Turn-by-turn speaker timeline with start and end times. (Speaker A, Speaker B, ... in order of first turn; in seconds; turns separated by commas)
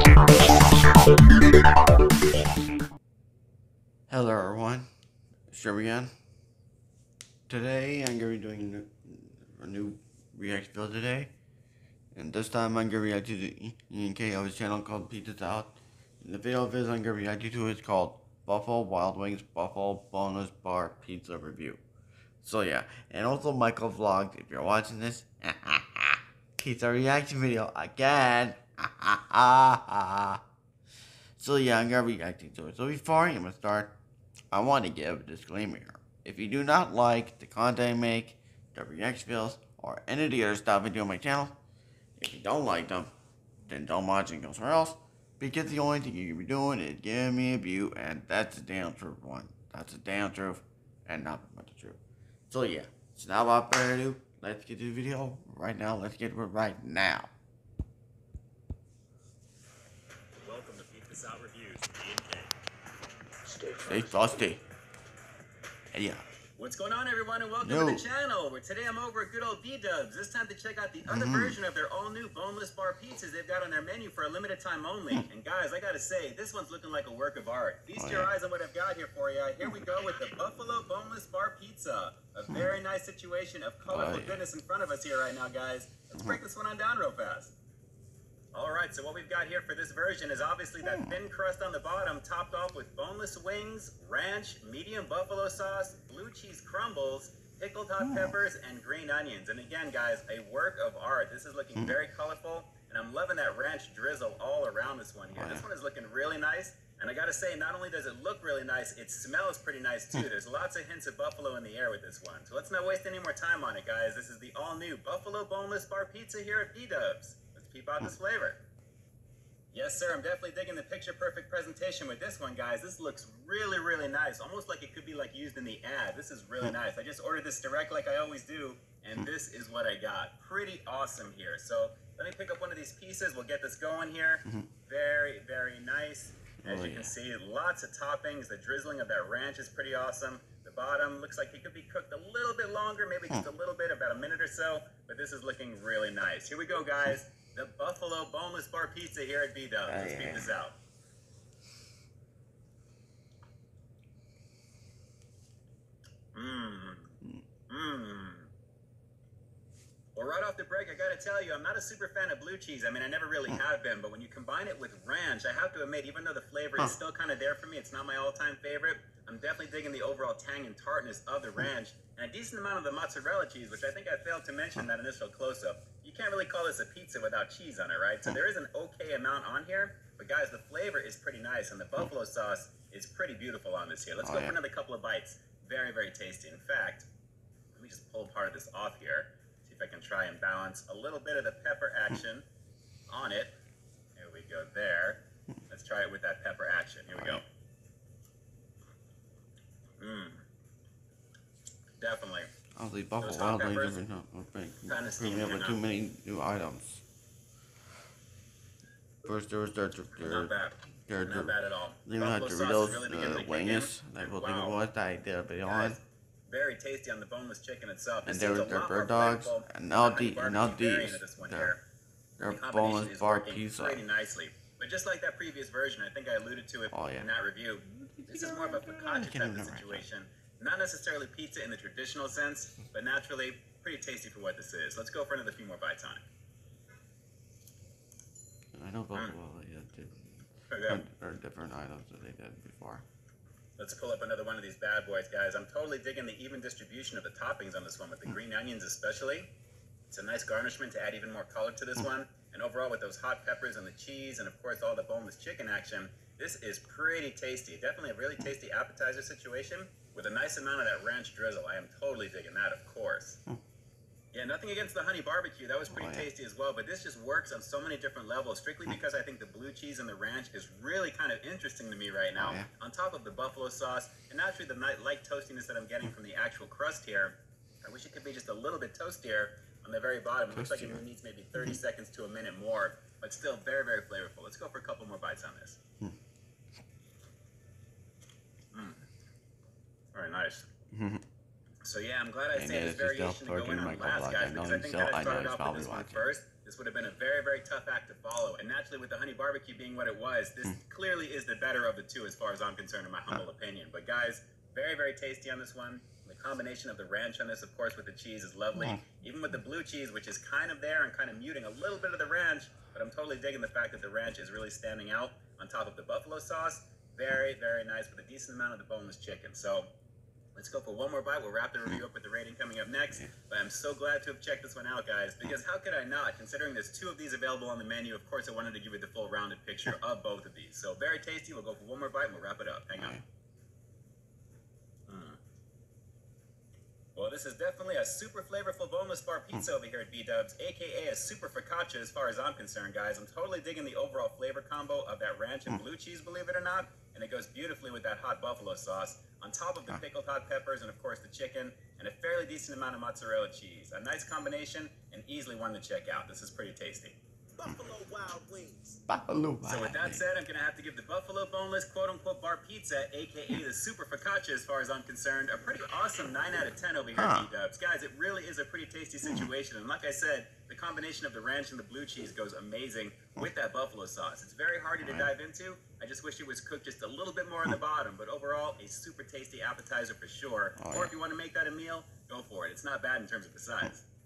Speaker A: 4.1-4.9, Speaker A: 5.5-6.1, Speaker A: 7.5-11.3, Speaker A: 12.1-21.8, Speaker A: 22.4-30.4, Speaker A: 31.4-33.9, Speaker A: 34.5-41.5, Speaker A: 42.2-43.1, Speaker A: 43.7-52.0, Speaker A: 52.5-57.3, Speaker B: 60.4-62.5, Speaker A: 63.8-64.6, Speaker A: 65.9-66.2, Speaker B: 66.6-87.5, Speaker A: 67.6-68.1, Speaker A: 71.0-71.6, Speaker A: 78.0-78.3, Speaker A: 83.8-84.4, Speaker B: 88.5-118.6, Speaker A: 90.8-91.2, Speaker A: 98.0-98.3, Speaker A: 105.3-105.7, Speaker B: 119.7-150.8, Speaker A: 136.6-137.1, Speaker A: 149.8-150.6, Speaker B: 156.3-157.2, Speaker B: 157.7-158.5, Speaker B: 160.2-187.1, Speaker A: 184.2-184.6, Speaker B: 187.7-192.4, Speaker B: 193.1-193.6, Speaker B: 194.2-197.4, Speaker A: 197.1-197.4, Speaker B: 200.0-200.4, Speaker B: 202.0-202.5, Speaker A: 202.8-207.0, Speaker B: 203.2-204.0, Speaker B: 204.8-205.8, Speaker A: 209.2-210.5, Speaker B: 210.2-214.8, Speaker A: 211.1-216.0, Speaker B: 215.6-221.8, Speaker A: 218.2-221.7, Speaker A: 222.4-224.0, Speaker B: 222.5-236.2, Speaker A: 226.9-227.3, Speaker A: 227.9-230.0, Speaker A: 238.7-243.0, Speaker B: 240.7-241.0, Speaker B: 243.8-249.5, Speaker B: 250.1-263.4, Speaker B: 264.3-285.8, Speaker A: 265.9-266.3, Speaker A: 272.3-272.7, Speaker A: 280.5-281.0, Speaker B: 288.7-289.0, Speaker B: 290.1-290.7, Speaker A: 290.9-291.2, Speaker B: 291.8-319.9, Speaker A: 292.5-296.3, Speaker A: 308.8-309.0, Speaker B: 320.5-333.2, Speaker A: 332.9-333.2, Speaker B: 335.1-335.4, Speaker B: 337.1-359.0, Speaker A: 359.1-360.2, Speaker B: 359.6-384.0, Speaker A: 367.1-367.5, Speaker A: 369.2-369.5, Speaker A: 375.0-375.3, Speaker A: 380.8-381.1